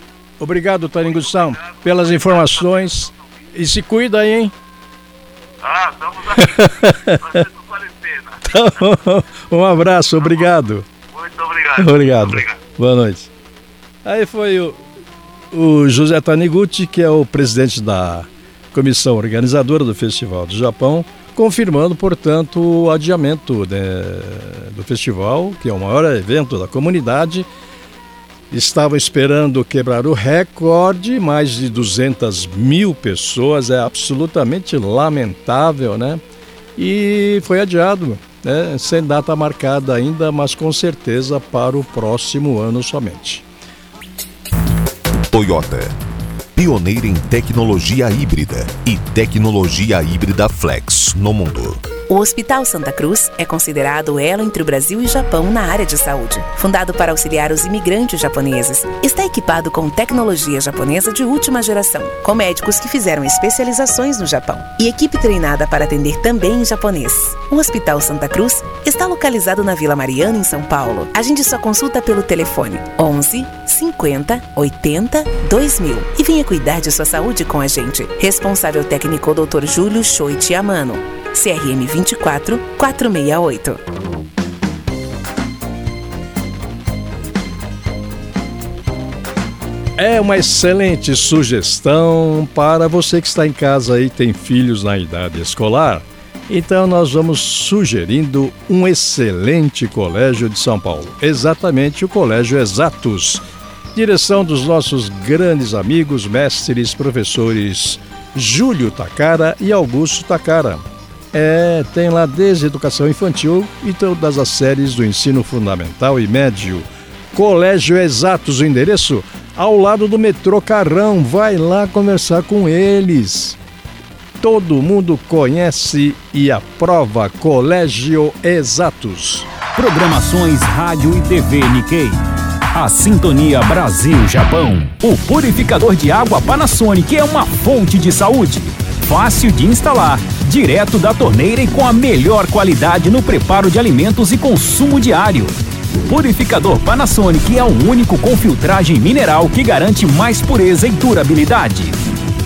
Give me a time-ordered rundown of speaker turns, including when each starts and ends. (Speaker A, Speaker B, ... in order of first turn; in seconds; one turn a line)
Speaker A: 0.4-4.5
Speaker B: 1.0-3.5
Speaker B: 5.6-8.8
Speaker A: 6.4-7.4
Speaker A: 8.4-10.8
Speaker B: 10.2-12.6
Speaker A: 11.8-13.3
Speaker A: 14.0-14.8
Speaker A: 15.5-27.5
Speaker A: 28.5-36.2
Speaker A: 36.8-43.4
Speaker C: 45.3-46.0
Speaker C: 46.5-51.9
Speaker D: 52.1-83.8
Speaker A: 90.0-103.4
Speaker A: 103.9-123.6
Speaker A: 124.4-129.5
Speaker E: 129.7-132.2
Speaker E: 132.7-145.5
Speaker E: 146.1-152.0